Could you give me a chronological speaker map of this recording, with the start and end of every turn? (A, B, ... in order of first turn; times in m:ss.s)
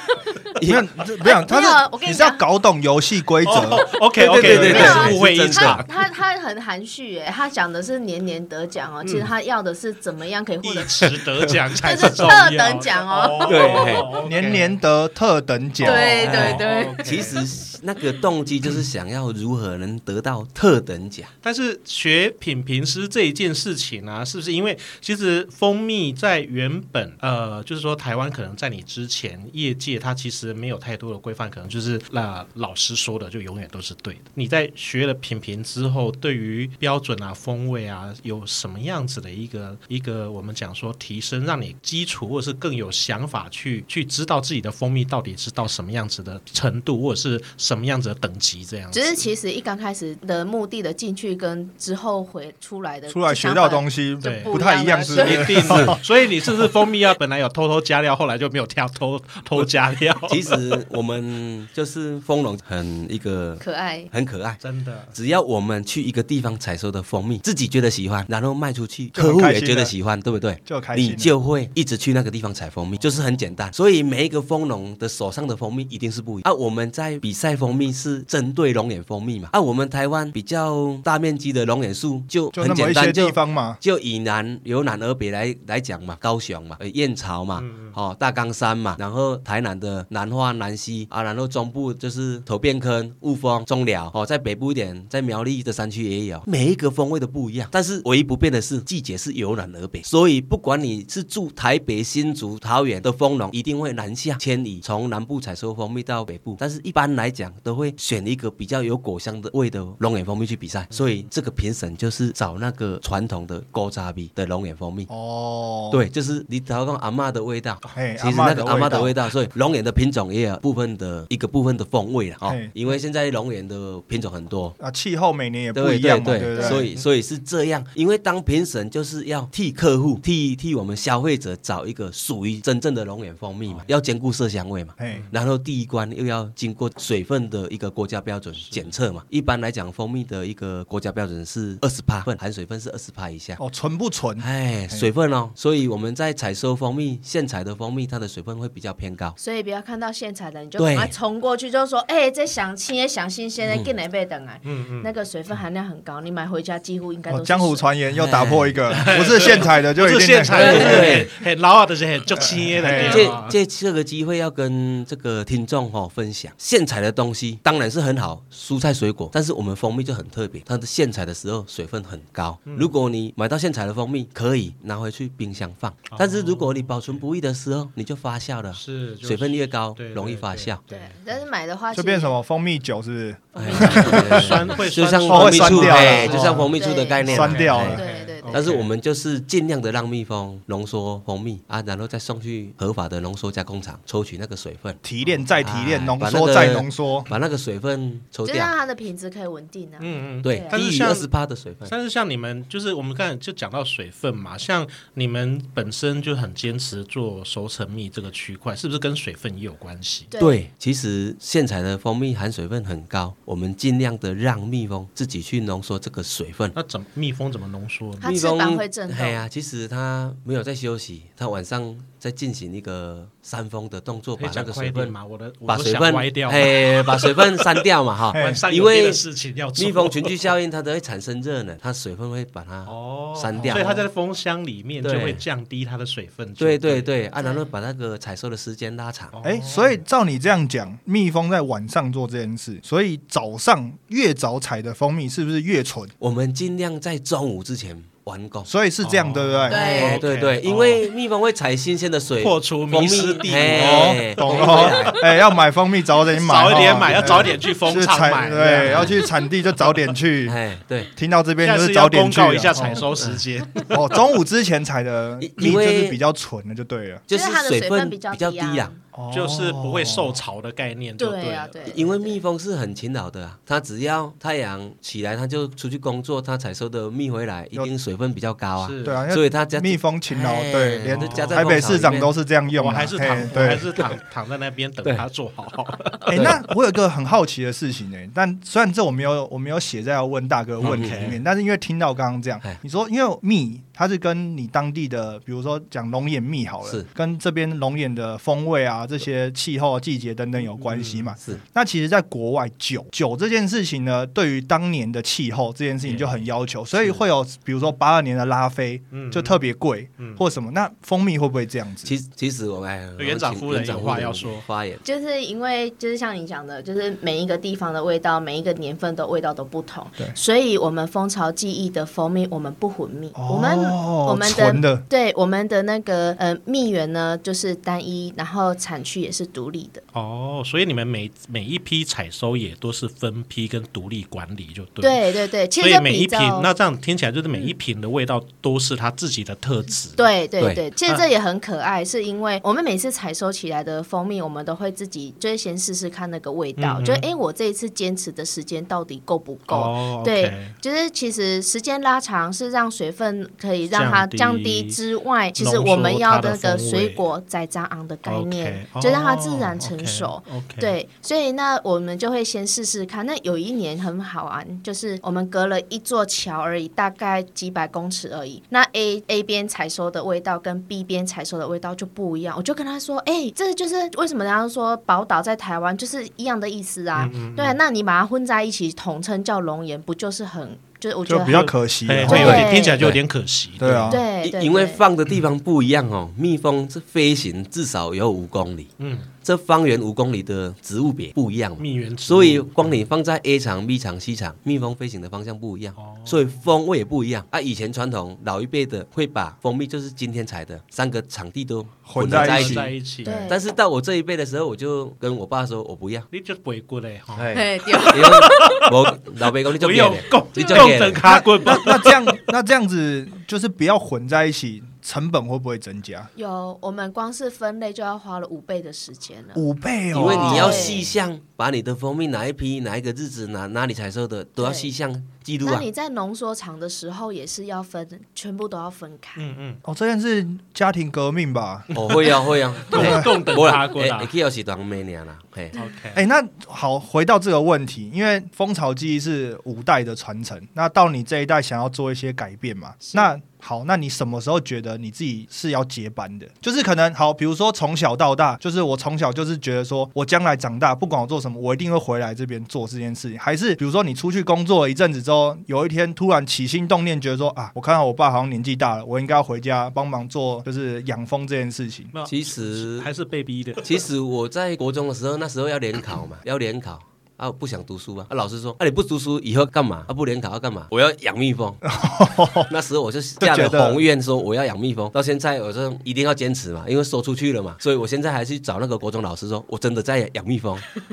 0:00.6-0:00.8 A
0:00.6-0:05.1 B
0:01.2-0:02.4 C
0:03.4-0:06.0 D
0:04.2-0:05.8 A
0:04.6-0:11.2 C
0:09.0-0:09.3 D
0:10.6-0:14.8 D
0:11.7-0:14.2 C
0:13.4-0:14.1 A
0:14.2-0:16.2 B
0:15.8-0:17.3 C
0:15.8-0:17.5 D
0:15.9-0:21.3 A
0:21.4-0:49.3 D
0:48.9-0:55.9 C
0:53.1-0:56.0 B
0:54.2-0:54.6 D
0:55.2-1:00.6 D
0:55.2-0:56.0 A
1:00.2-1:04.6 A
1:03.6-1:04.1 C
1:04.6-1:05.2 D
1:05.1-1:55.1 A
1:09.1-1:09.9 B
1:10.6-1:11.3 B
1:22.5-1:23.8 B
1:27.6-1:28.0 D
1:55.1-1:56.0 B
1:55.9-2:04.8 A
1:57.9-1:59.2 B
2:02.4-2:02.7 B
2:04.8-2:06.9 B
2:05.7-2:23.6 A
2:06.5-2:06.8 C
2:15.0-2:15.3 B
2:18.6-2:18.9 D
2:23.6-2:25.1 B
2:24.4-2:29.4 A
2:29.4-2:37.8 C
2:30.8-2:31.1 A
2:33.6-2:33.9 A
2:34.6-2:35.1 D
2:37.3-2:41.2 B
2:38.1-2:39.3 A
2:38.9-2:43.6 D
2:40.5-2:41.3 A
2:42.4-2:43.3 B
2:43.0-3:00.8 A
2:52.7-2:52.9 D
2:56.1-2:57.2 D
2:58.8-3:01.2 D
3:00.9-3:02.3 C
3:01.9-3:04.6 B
3:03.6-3:15.0 A
3:03.6-3:08.9 D
3:03.7-3:04.0 C
3:05.3-3:06.7 B
3:06.0-3:08.6 C
3:07.2-3:08.0 B
3:15.0-3:17.3 B
3:15.6-3:18.8 A
3:18.4-3:20.8 C
3:20.0-3:21.3 D
3:20.4-3:21.9 A
3:21.8-3:30.3 D
3:30.3-3:30.6 C
3:30.4-3:36.8 A
3:36.8-3:38.3 D
3:38.2-3:39.4 C
3:38.2-3:45.1 A
3:44.4-3:50.5 D
3:45.7-3:49.2 A
3:48.3-3:48.6 B
3:49.8-3:54.1 A
3:52.9-3:57.1 D
3:53.6-3:53.9 B
3:55.0-3:55.4 A
3:56.6-3:59.4 A
3:57.4-3:57.7 C
3:59.3-4:00.0 D
3:59.4-4:06.1 B
4:06.2-4:08.7 A
4:08.7-4:09.8 B
4:09.0-4:11.0 D
4:09.7-4:10.2 C
4:09.8-4:15.2 A
4:12.4-4:15.3 D
4:13.7-4:20.6 B
4:16.3-4:19.3 D
4:16.8-4:17.6 A
4:18.8-4:19.2 A
4:19.8-4:20.1 D
4:20.4-4:21.1 A
4:21.2-4:23.1 B
4:21.6-4:24.0 D
4:23.1-4:23.4 A
4:23.9-4:27.2 B
4:25.4-4:26.2 A
4:27.3-4:28.9 A
4:27.3-4:29.0 C
4:29.1-4:30.4 B
4:29.3-4:32.0 D
4:31.2-4:32.4 C
4:31.9-4:42.3 A
4:38.8-4:39.2 D
4:39.0-4:43.9 B
4:41.1-4:42.0 D
4:42.8-4:46.6 D
4:46.3-5:12.1 B
4:46.3-4:46.6 A
4:50.8-4:51.4 A
4:50.8-4:51.4 D
5:00.7-5:01.4 D
5:06.0-5:06.5 D
5:09.1-5:09.6 D
5:12.0-5:15.0 A
5:13.2-5:14.7 D
5:15.0-5:30.0 C
5:23.4-5:25.0 B
5:30.1-5:40.3 D
5:35.0-5:36.7 C
5:40.2-6:21.7 C
5:46.8-5:47.2 D
5:49.7-5:50.7 D
5:53.9-5:55.0 D
5:55.6-5:57.2 D
5:58.2-6:01.0 D
6:17.2-6:17.8 D
6:21.3-6:22.7 B
6:22.1-6:24.2 D
6:22.3-6:23.1 C
6:22.3-6:23.2 A
6:23.8-6:24.2 B
6:24.1-6:25.0 C
6:24.4-6:28.9 A
6:29.0-6:29.3 D
6:29.4-6:42.9 A
6:31.8-6:32.9 D
6:36.0-6:36.5 D
6:42.1-6:42.9 B
6:42.2-6:43.6 D
6:43.2-6:43.6 C
6:43.5-6:46.3 A
6:46.3-6:52.4 D
6:47.3-6:51.3 A
6:47.5-6:48.5 C
6:50.6-6:50.9 C
6:51.2-6:56.3 B
6:56.4-6:59.6 C
6:59.6-7:00.9 B
7:00.1-7:05.9 A
7:00.1-7:01.1 C
7:04.6-7:04.9 C
7:05.6-7:09.5 C
7:09.4-7:09.8 D
7:09.8-7:11.9 B
7:11.9-7:14.3 D
7:11.9-7:15.8 A
7:12.9-7:13.2 B
7:15.8-7:16.2 D
7:16.1-7:42.1 B
7:42.1-7:44.0 D
7:42.3-7:43.1 A
7:43.8-7:51.8 A
7:51.8-7:52.7 B
7:52.6-8:00.8 A
7:53.4-7:54.0 B